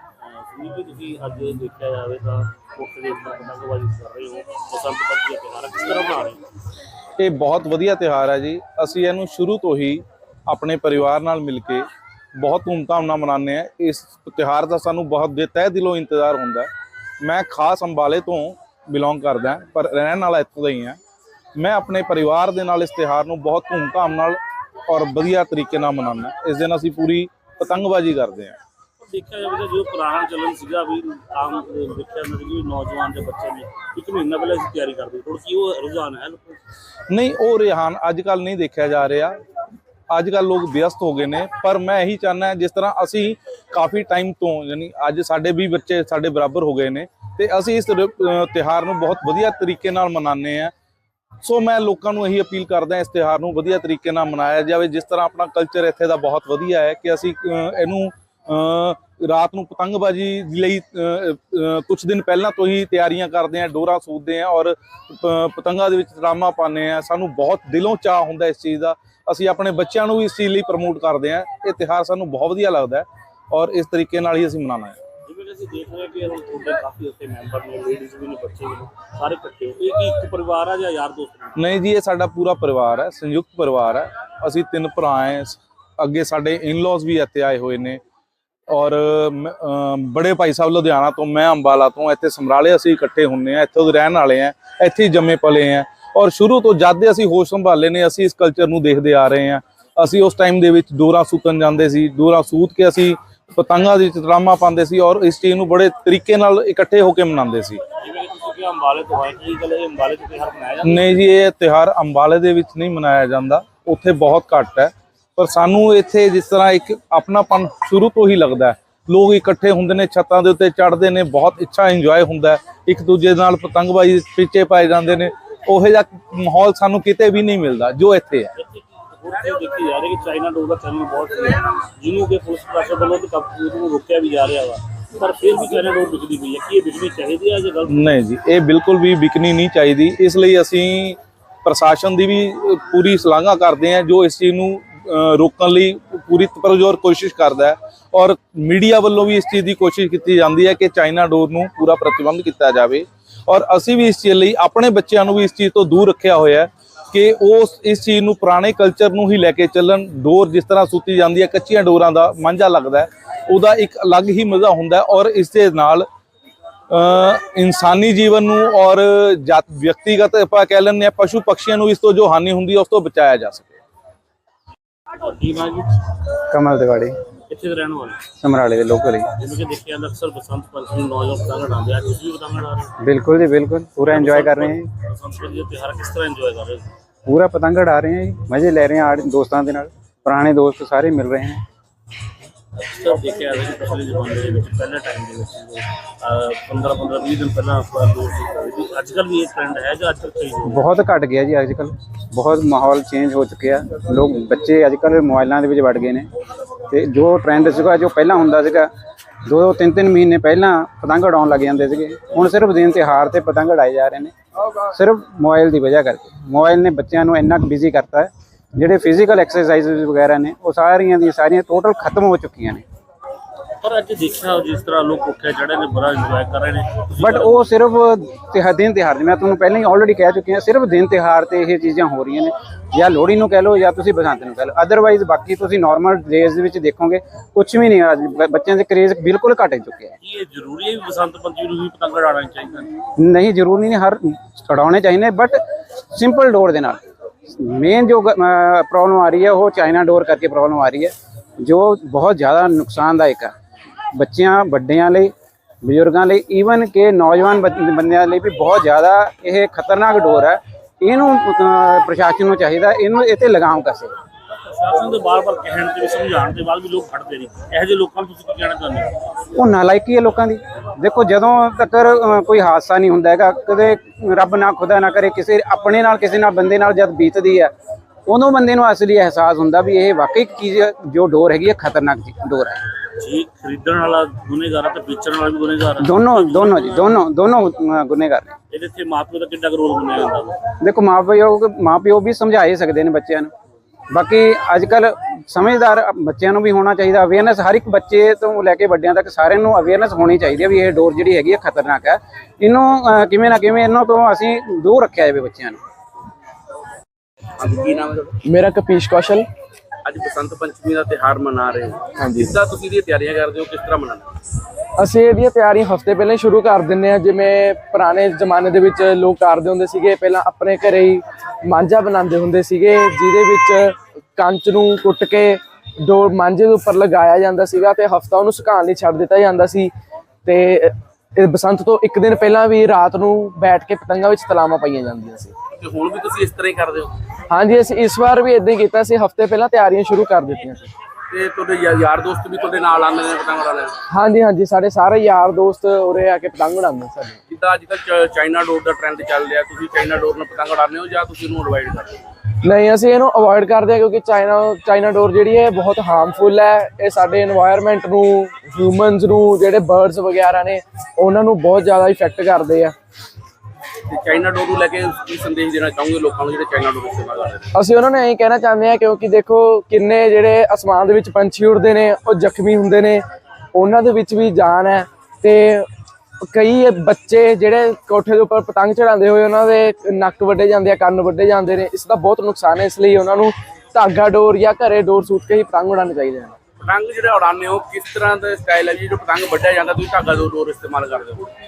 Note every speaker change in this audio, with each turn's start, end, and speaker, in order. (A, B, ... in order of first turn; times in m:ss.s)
0:00.3-0:06.4 A
0:07.2-0:16.7 B
0:17.2-0:21.0 B
0:21.6-0:28.6 B
0:29.0-0:36.6 A
0:37.1-0:39.4 B
0:40.1-0:50.7 B
0:51.4-1:15.0 B
1:15.2-1:21.6 A
1:21.6-1:28.0 B
1:28.7-1:47.8 B
1:48.0-1:51.2 A
1:50.8-2:08.5 B
2:08.6-2:18.1 A
2:17.9-2:46.0 B
2:46.9-2:53.8 B
2:55.2-2:56.1 A
2:56.5-2:57.2 C
2:57.5-2:58.2 A
2:58.4-2:59.3 C
2:59.4-3:02.9 A
3:03.0-3:04.9 C
3:04.0-3:06.9 A
3:07.2-3:11.6 C
3:12.8-3:20.9 A
3:20.6-3:26.3 C
3:26.9-3:28.9 C
3:29.4-3:42.8 C
3:43.8-3:47.6 A
3:47.2-4:00.1 C
4:00.2-4:02.9 A
4:03.2-4:05.6 C
4:06.1-4:13.5 C
4:14.1-4:24.1 C
4:24.7-4:29.2 A
4:29.5-4:37.7 C
4:38.2-4:42.8 C
4:43.2-4:47.2 A
4:46.0-4:48.6 C
4:48.7-4:50.6 A
4:50.8-4:53.5 C
4:54.1-5:05.8 C
5:07.6-5:08.4 D
5:08.4-5:09.4 E
5:10.0-5:14.3 D
5:12.2-5:12.5 E
5:15.0-5:29.9 E
5:30.4-5:35.5 E
5:35.7-5:37.2 D
5:37.5-5:40.9 E
5:41.3-5:44.0 D
5:44.1-5:47.4 E
5:47.5-5:52.3 D
5:52.6-6:02.9 E
6:04.1-6:07.7 D
6:07.7-6:15.9 E
6:16.4-6:26.6 E
6:26.8-6:31.5 D